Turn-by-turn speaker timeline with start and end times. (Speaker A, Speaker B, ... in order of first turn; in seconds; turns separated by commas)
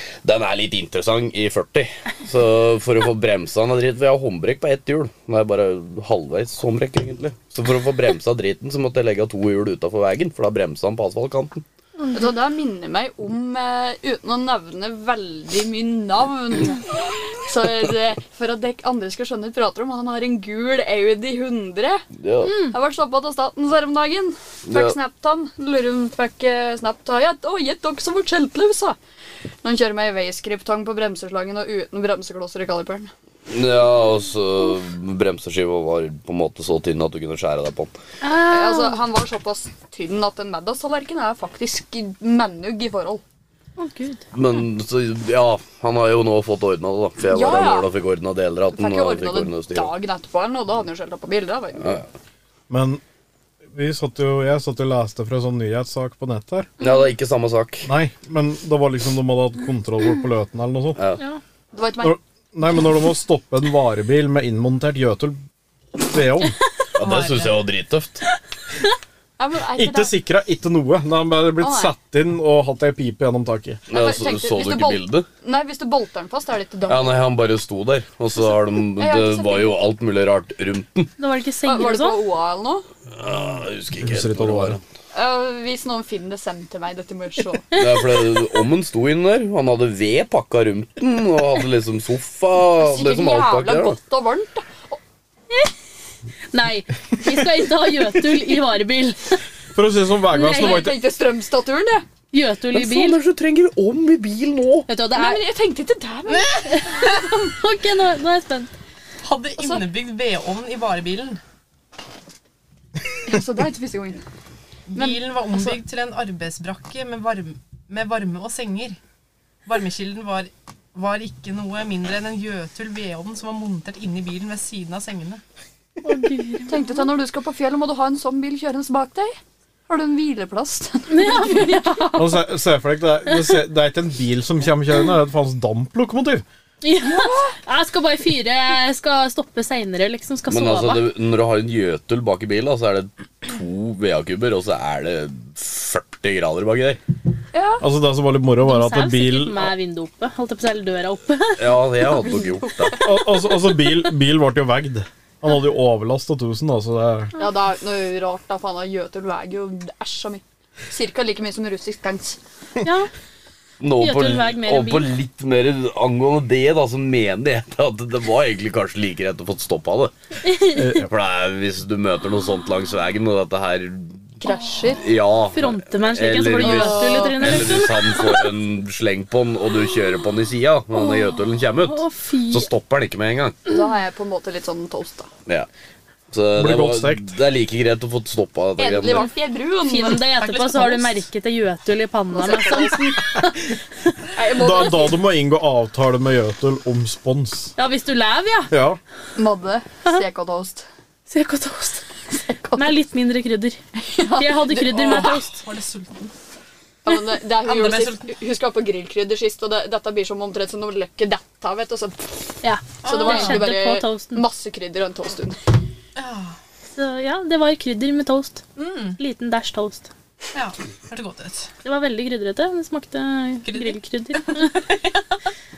Speaker A: 0.2-11.6, Speaker B: 12.1-22.1, Speaker A: 22.2-22.6, Speaker C: 22.4-22.8, Speaker B: 22.6-29.0, Speaker A: 24.6-25.0, Speaker B: 29.6-33.1, Speaker A: 33.5-37.9, Speaker C: 38.2-39.0, Speaker B: 38.4-43.2, Speaker C: 43.8-44.2, Speaker A: 44.3-49.9, Speaker B: 47.3-47.9, Speaker B: 48.7-52.0, Speaker D: 52.7-53.0, Speaker D: 53.7-56.7, Speaker A: 56.8-57.9, Speaker D: 57.9-61.0, Speaker A: 61.0-61.2, Speaker B: 61.7-62.2, Speaker D: 62.0-65.4, Speaker D: 66.0-66.6, Speaker A: 67.0-68.2, Speaker E: 67.0-67.6, Speaker B: 69.4-70.1, Speaker D: 69.8-73.8, Speaker B: 71.6-71.9, Speaker A: 73.9-75.3, Speaker B: 73.9-77.3, Speaker A: 76.9-81.1, Speaker B: 78.8-79.8, Speaker C: 81.2-82.2, Speaker B: 81.6-82.9, Speaker A: 83.1-84.8, Speaker D: 84.0-84.8, Speaker B: 85.1-87.8, Speaker A: 87.7-94.0, Speaker B: 92.8-95.0, Speaker C: 96.5-99.4, Speaker D: 99.7-101.0, Speaker C: 100.3-100.9, Speaker B: 100.5-102.0, Speaker C: 102.3-103.2, Speaker A: 102.7-104.9, Speaker C: 104.9-105.4, Speaker B: 105.1-107.5, Speaker C: 106.6-108.7, Speaker E: 109.2-111.4, Speaker B: 109.6-109.8, Speaker B: 113.2-114.2, Speaker E: 114.9-119.0, Speaker B: 115.0-115.8, Speaker E: 119.7-125.4, Speaker C: 126.0-127.1, Speaker B: 126.7-129.4, Speaker B: 129.9-132.3, Speaker C: 131.1-132.2, Speaker D: 132.2-136.4, Speaker C: 136.8-141.1, Speaker B: 137.0-137.6, Speaker A: 140.5-147.0, Speaker B: 147.5-147.8, Speaker D: 147.8-149.7, Speaker C: 148.6-151.9, Speaker A: 151.6-153.0, Speaker B: 152.2-153.6, Speaker D: 153.0-157.3, Speaker B: 157.4-162.4, Speaker C: 162.8-163.1, Speaker A: 163.8-170.1, Speaker C: 164.0-165.1, Speaker C: 170.4-170.9, Speaker D: 170.8-171.1, Speaker A: 171.0-174.3, Speaker B: 174.4-175.1, Speaker A: 175.0-183.6, Speaker C: 175.5-178.3, Speaker B: 176.6-178.0, Speaker C: 181.8-182.7, Speaker B: 183.7-185.3, Speaker A: 186.3-189.3, Speaker D: 186.6-187.4, Speaker B: 188.8-191.1, Speaker C: 189.8-193.7, Speaker B: 192.3-193.2, Speaker B: 194.3-195.2, Speaker D: 194.6-197.7, Speaker C: 197.8-198.8, Speaker D: 198.7-199.0, Speaker B: 199.4-200.8, Speaker C: 201.3-202.1, Speaker B: 202.5-203.0, Speaker C: 202.7-203.8, Speaker B: 204.0-205.4, Speaker C: 204.4-205.6, Speaker E: 204.9-206.3, Speaker B: 207.0-215.6, Speaker E: 207.6-208.3, Speaker C: 212.6-214.5, Speaker E: 213.0-213.7, Speaker E: 216.2-216.6, Speaker C: 217.0-218.6, Speaker E: 218.8-219.2, Speaker C: 219.2-220.1, Speaker E: 220.5-221.7, Speaker C: 221.8-224.8, Speaker E: 223.7-224.8